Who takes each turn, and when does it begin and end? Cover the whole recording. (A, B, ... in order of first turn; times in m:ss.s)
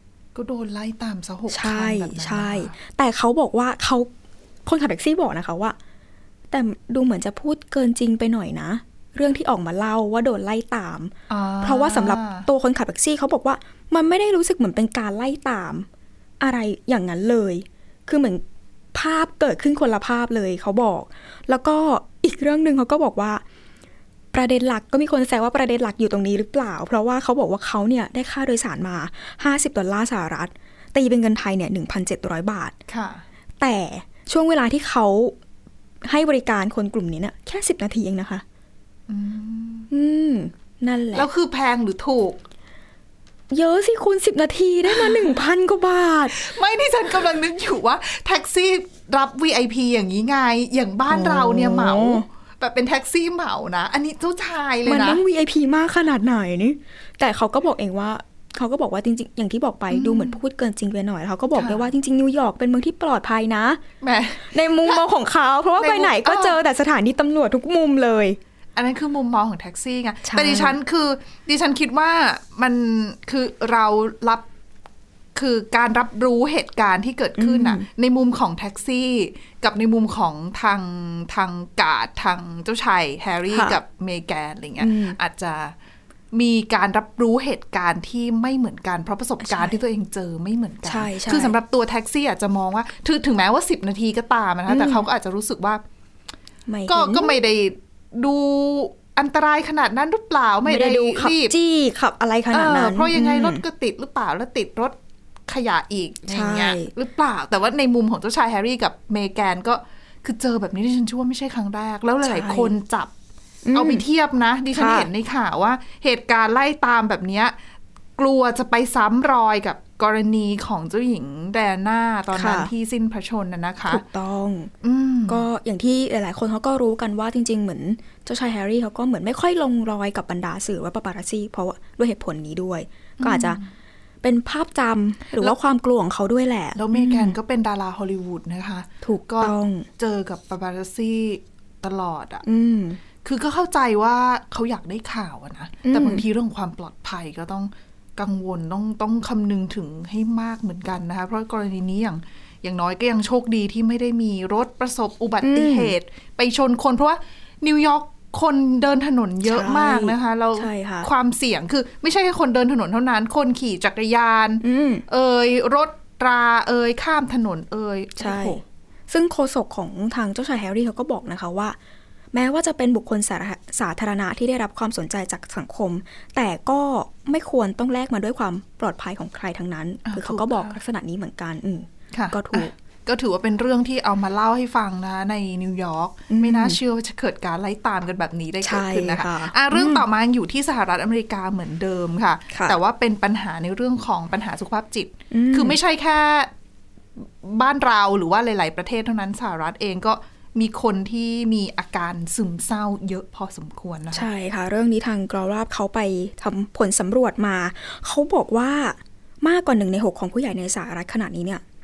0:00.3-0:02.7 A
0:01.5-0:04.1 B
0:04.6-0:05.8 B
0:06.5-0:15.9 B
0:11.3-0:12.5 A
0:16.4-0:18.4 B
0:18.9-0:23.4 B
0:24.3-0:32.8 B
0:32.9-0:33.2 A
0:33.6-0:35.4 B
0:36.0-0:38.4 B
0:39.1-0:39.9 A
0:39.9-0:41.3 B
0:41.1-0:42.4 A
0:43.5-0:46.4 B
0:44.9-0:45.4 A
0:46.3-0:55.2 A
0:51.1-0:52.2 B
0:54.8-1:03.8 B
0:59.9-1:00.4 A
1:01.5-1:01.8 A
1:04.0-1:05.0 A
1:04.4-1:08.4 B
1:05.8-1:06.6 A
1:08.8-1:14.4 A
1:10.2-1:10.8 B
1:15.3-1:25.7 A
1:17.4-1:17.8 B
1:23.5-1:23.8 B
1:24.8-1:25.2 B
1:26.3-1:35.8 A
1:29.4-1:29.8 B
1:30.8-1:31.5 B
1:34.7-1:35.0 B
1:36.7-1:37.3 B
1:36.9-1:41.5 A
1:40.6-1:43.6 B
1:42.5-1:45.0 A
1:45.5-1:53.1 A
1:46.3-1:46.9 B
1:52.2-1:52.7 B
1:53.6-1:54.0 B
1:53.7-1:57.6 A
1:54.7-1:55.1 B
1:58.2-2:04.0 A
2:02.3-2:02.7 B
2:03.9-2:04.7 B
2:04.8-2:05.4 A
2:05.3-2:13.6 B
2:13.2-2:13.7 A
2:14.2-2:17.4 B
2:16.7-2:22.4 A
2:19.0-2:19.9 B
2:22.4-2:23.0 B
2:23.2-2:48.6 A
2:25.8-2:26.2 B
2:35.4-2:35.9 B
2:39.4-2:41.1 B
2:44.6-2:45.0 B
2:48.2-2:51.8 B
2:52.3-3:02.7 B
3:00.0-3:00.8 A
3:02.1-3:16.5 A
3:06.3-3:06.8 B
3:08.6-3:10.0 B
3:12.5-3:12.8 B
3:15.3-3:15.8 B
3:17.2-3:24.2 A
3:24.1-3:31.6 B